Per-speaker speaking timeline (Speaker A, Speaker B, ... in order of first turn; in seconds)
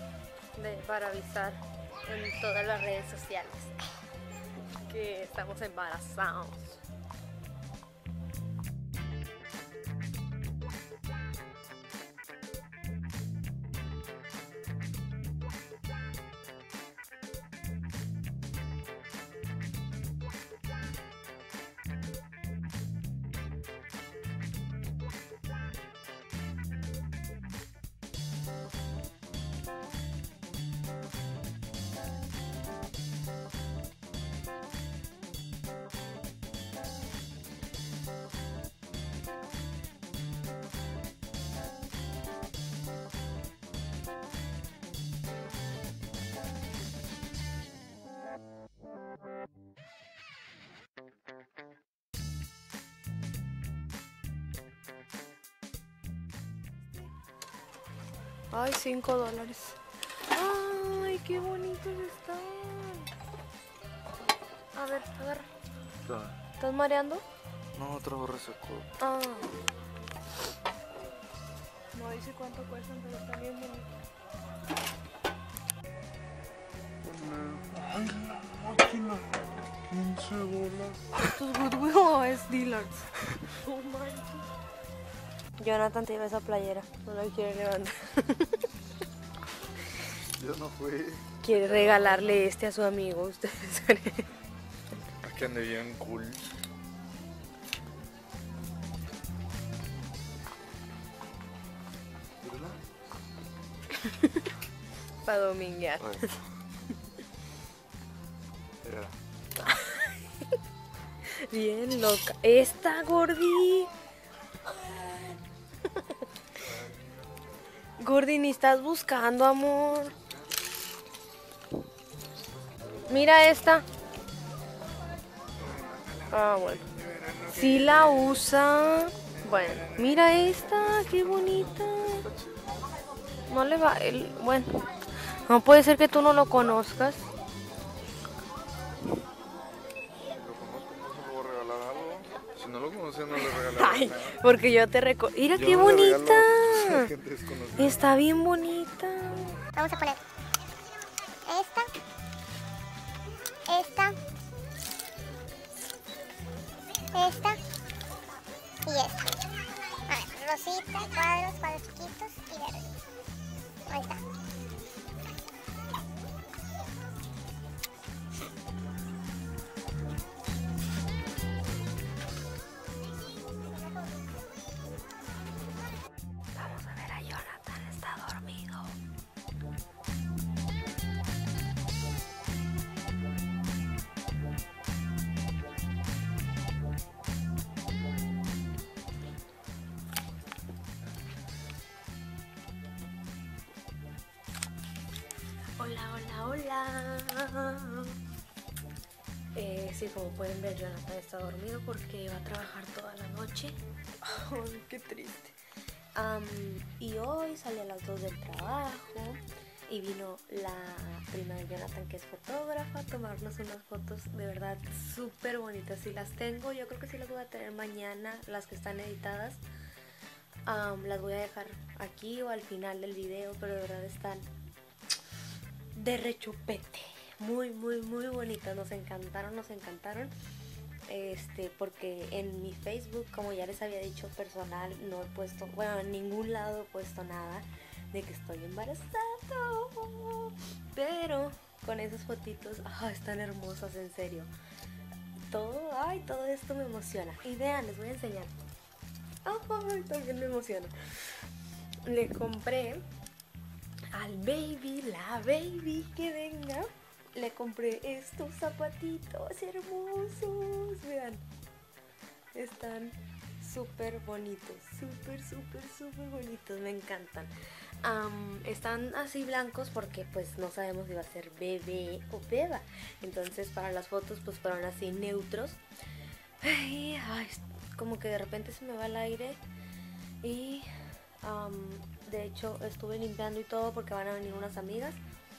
Speaker A: 0.6-3.8, 4.8-6.8, 58.5-59.8, 60.3-63.1, 64.8-65.5, 66.6-67.2, 69.0-69.6, 71.9-73.9, 81.3-84.5, 85.6-88.7, 91.4-94.3, 104.0-104.4, 105.2-106.3, 109.6-110.2, 111.5-113.9, 114.7-115.4, 118.0-120.2, 123.1-123.8, 126.3-126.9, 127.5-132.3, 133.5-134.7, 135.5-137.2, 143.4-147.1, 147.8-149.6, 176.6-179.0, 195.8-198.1, 199.6-205.6, 206.2-219.6, 220.7-224.5, 226.0-230.3, 231.1-244.5, 245.5-248.6, 249.4-250.9, 252.1-253.1, 254.1-261.4, 262.6-267.5, 268.0-275.8, 276.6-279.6, 280.4-280.9, 281.4-285.2
Speaker B: 66.0-66.4, 67.7-68.9, 77.0-79.4, 79.9-81.2, 90.4-92.5, 95.2-96.4, 102.4-102.8, 106.0-106.4, 108.8-109.2, 116.6-117.3, 120.2-120.5, 125.6-126.4, 126.9-128.4, 130.8-132.7, 140.2-144.4, 145.5-148.1
Speaker C: 149.8-150.2, 151.5-151.9, 153.7-154.2, 157.1-157.6, 158.9-159.3, 160.1-162.8, 163.9-164.2